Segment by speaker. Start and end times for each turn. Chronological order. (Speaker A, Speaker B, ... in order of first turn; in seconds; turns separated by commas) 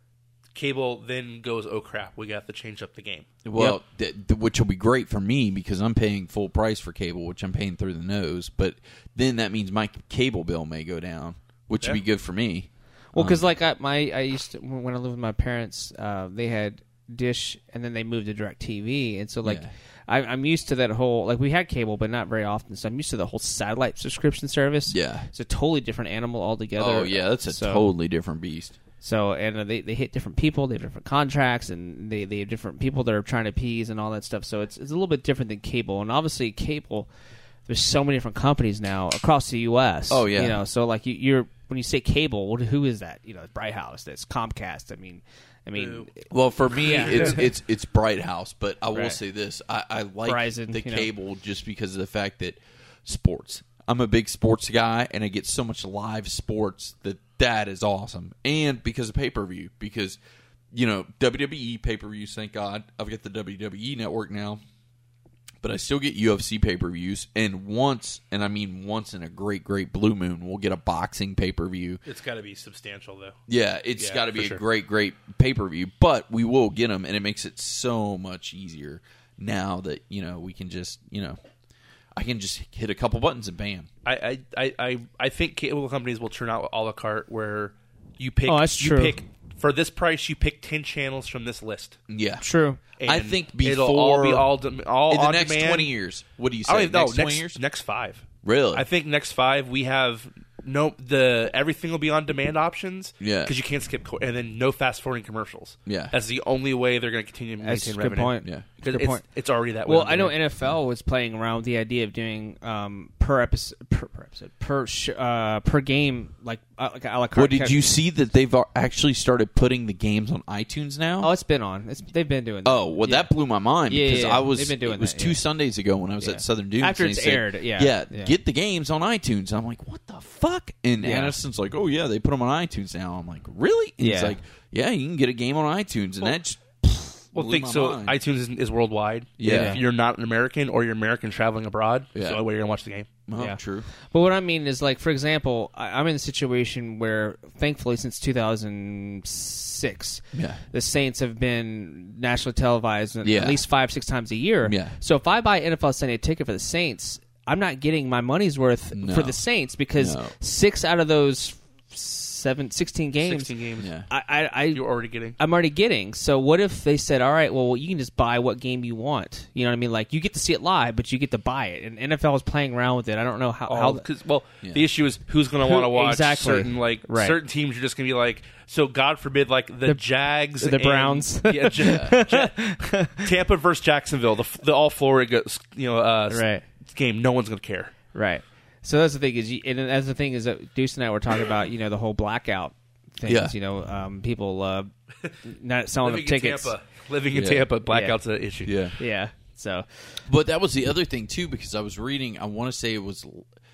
Speaker A: 0.6-3.3, Speaker B: 3.5-13.4, Speaker C: 13.1-27.9, Speaker B: 19.4-19.7, Speaker B: 24.9-25.3, Speaker B: 26.8-28.8, Speaker C: 29.0-37.1, Speaker C: 37.7-46.3, Speaker B: 40.1-40.6, Speaker A: 45.8-46.1, Speaker B: 46.3-60.2, Speaker C: 46.8-47.4, Speaker A: 46.9-47.4, Speaker C: 48.9-49.2, Speaker C: 50.3-51.1, Speaker B: 60.7-64.6, Speaker B: 65.6-72.0, Speaker A: 72.1-73.4, Speaker B: 73.5-81.4, Speaker A: 74.0-74.6, Speaker B: 82.2-83.9, Speaker A: 84.0-92.0, Speaker C: 88.5-89.2, Speaker B: 92.1-92.4, Speaker C: 92.4-92.8, Speaker A: 93.0-95.9, Speaker B: 93.0-94.5, Speaker B: 95.1-97.6, Speaker A: 96.7-110.4, Speaker B: 98.4-98.9, Speaker B: 103.2-103.5, Speaker B: 105.9-106.1, Speaker C: 107.6-109.2, Speaker C: 109.9-117.8, Speaker B: 117.4-121.3, Speaker C: 121.2-123.3, Speaker B: 122.7-138.2, Speaker C: 123.9-125.4, Speaker C: 126.2-128.3, Speaker C: 131.0-131.4, Speaker C: 134.0-134.4, Speaker A: 137.3-143.1, Speaker B: 139.4-139.8, Speaker C: 139.4-139.8, Speaker B: 142.2-142.4, Speaker B: 143.3-143.9, Speaker C: 144.1-163.5, Speaker B: 150.3-150.6, Speaker B: 153.2-153.6, Speaker B: 154.7-154.9, Speaker B: 158.9-159.4, Speaker B: 160.0-160.3, Speaker A: 163.2-163.9, Speaker B: 163.8-164.1, Speaker C: 164.1-164.8, Speaker A: 164.7-165.4, Speaker C: 165.4-174.1, Speaker A: 173.7-187.9, Speaker C: 175.6-177.4, Speaker C: 180.6-183.3, Speaker B: 181.8-182.1, Speaker C: 186.3-186.6, Speaker C: 188.1-194.9, Speaker B: 193.3-193.5, Speaker C: 195.4-196.7, Speaker A: 196.0-198.8, Speaker B: 197.3-197.7, Speaker C: 197.9-198.2, Speaker B: 198.7-199.0, Speaker C: 199.0-200.1, Speaker B: 200.3-203.5